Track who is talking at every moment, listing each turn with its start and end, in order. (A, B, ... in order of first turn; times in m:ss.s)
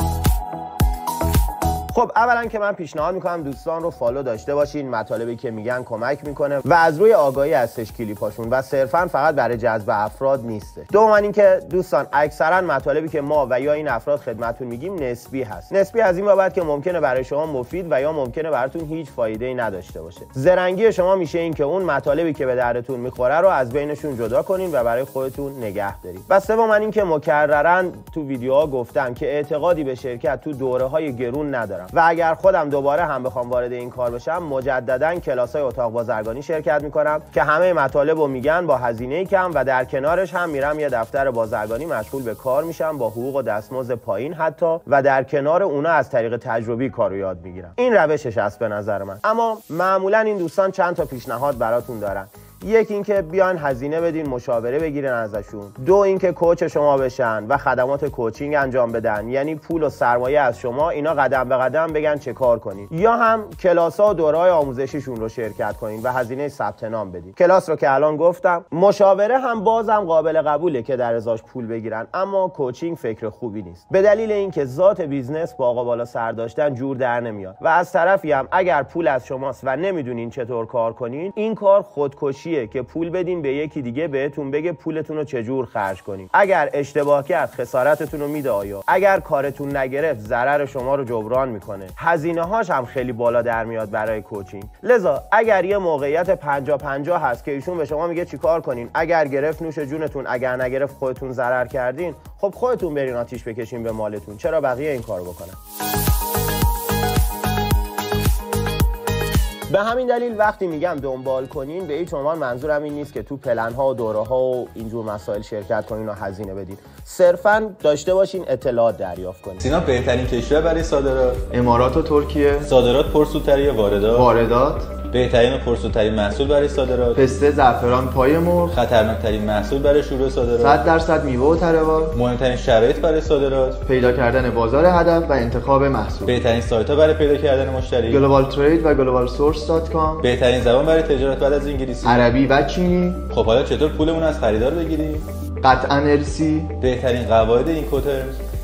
0:01.9-1:45.6 A
1:49.7-1:59.6 A
1:59.6-2:01.4 B
2:01.5-2:02.7 C
2:02.6-2:04.3 B
2:04.1-2:04.9 C
2:05.1-2:07.2 B
2:07.2-2:08.8 C
2:08.7-2:10.8 B
2:10.6-2:12.2 C
2:12.1-2:13.8 B
2:13.8-2:16.4 C
2:16.2-2:18.3 B
2:18.1-2:20.3 C
2:20.2-2:22.3 B
2:22.0-2:23.3 C
2:23.3-2:25.3 B
2:25.6-2:26.7 C
2:26.8-2:28.4 B